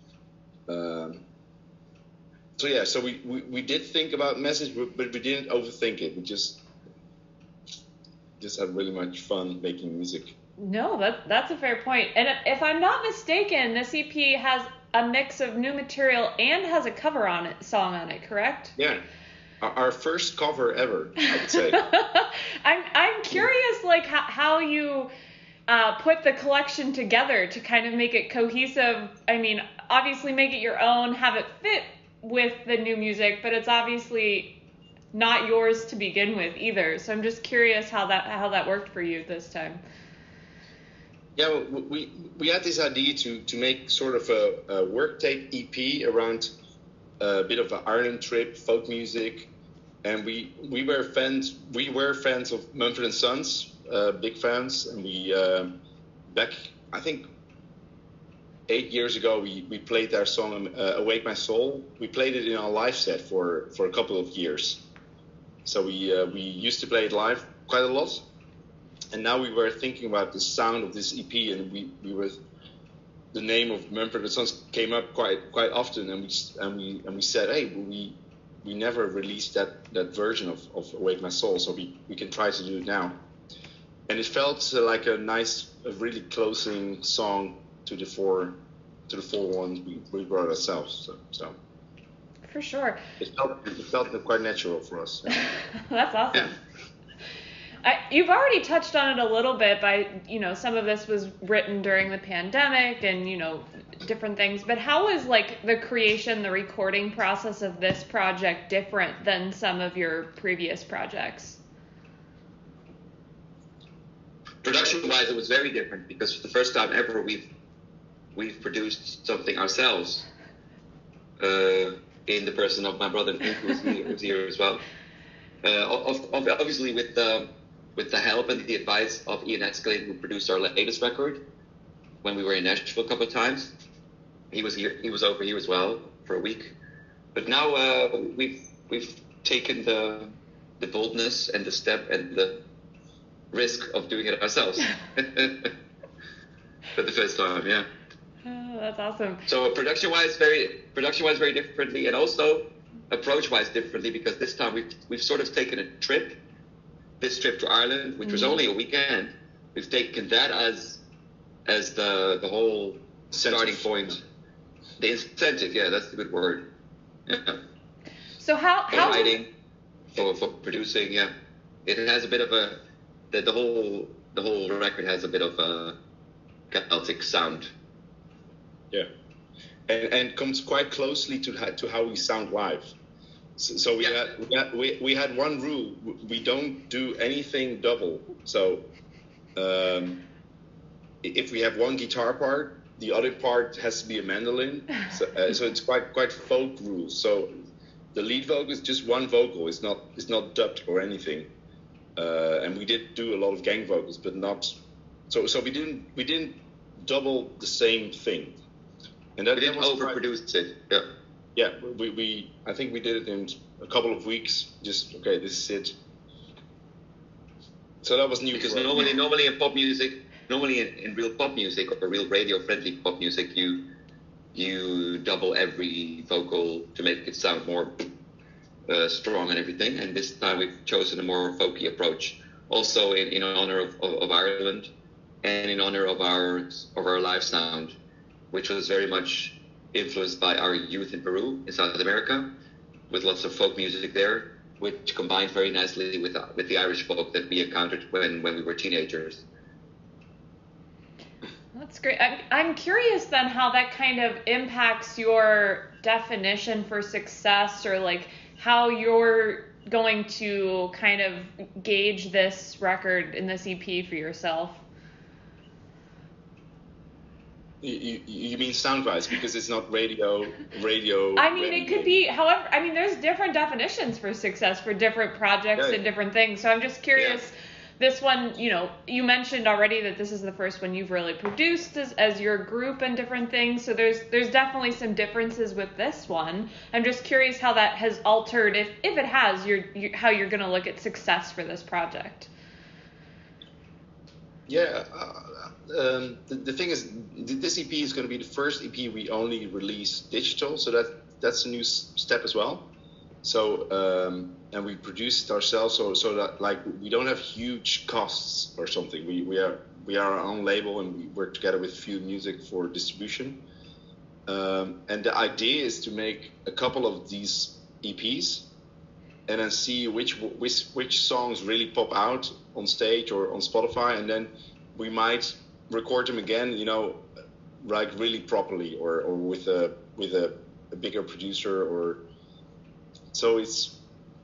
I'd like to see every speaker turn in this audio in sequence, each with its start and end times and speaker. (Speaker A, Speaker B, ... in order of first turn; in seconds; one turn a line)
Speaker A: 0.7-1.2
Speaker A: 2.6-6.6
Speaker A: 8.4-10.3
Speaker B: 10.6-18.7
Speaker A: 18.8-19.0
Speaker A: 19.6-21.8
Speaker B: 21.8-25.1
Speaker B: 25.7-34.6
Speaker B: 35.1-39.8
Speaker A: 41.4-46.5
Speaker A: 47.2-49.5
Speaker A: 50.0-55.7
Speaker A: 56.3-57.2
Speaker A: 58.7-64.8
Speaker A: 65.6-68.2
Speaker A: 69.1-72.4
Speaker A: 73.3-83.2
Speaker A: 84.1-88.5
Speaker A: 89.1-91.5
Speaker B: 92.5-93.0
Speaker A: 93.2-95.4
Speaker B: 95.4-96.5
Speaker B: 97.8-111.6
Speaker C: 114.6-117.5
Speaker C: 118.3-120.2
Speaker C: 121.4-124.8
Speaker C: 125.6-131.4
Speaker C: 132.2-133.7
Speaker C: 134.5-136.7
Speaker C: 137.3-142.6
Speaker C: 143.5-145.7
Speaker C: 146.9-147.9
Speaker B: 148.4-149.4
Speaker C: 149.5-156.4
Speaker C: 157.2-161.0
Speaker B: 158.2-158.6
Speaker C: 161.7-164.2
Speaker A: 163.3-164.2
Speaker C: 165.0-166.7
Speaker C: 167.3-167.6
Speaker B: 168.4-169.4
Speaker C: 168.9-169.5
Speaker C: 170.1-171.3
Speaker C: 171.8-172.8
Speaker C: 173.3-175.9
Speaker C: 176.7-177.7
Speaker A: 179.9-182.9
Speaker A: 183.6-188.8
Speaker C: 184.0-184.3
Speaker A: 189.6-190.2
Speaker A: 191.2-197.5
Speaker A: 198.1-201.5
Speaker A: 202.2-204.7
Speaker A: 205.3-208.6
Speaker A: 209.4-210.2
Speaker C: 209.6-211.0
Speaker A: 211.6-215.9
Speaker A: 218.0-219.1
Speaker C: 218.5-223.8
Speaker C: 224.5-227.9
Speaker C: 228.9-234.9
Speaker C: 235.4-238.0
Speaker C: 238.5-242.5
Speaker C: 243.1-249.4
Speaker B: 251.7-264.8
Speaker A: 267.8-272.2
Speaker B: 271.4-292.5
Speaker C: 277.1-277.4
Speaker A: 294.7-302.8
Speaker A: 303.4-313.6
Speaker A: 314.5-318.7
Speaker A: 319.5-327.2
Speaker A: 327.8-332.2
Speaker A: 333.3-334.0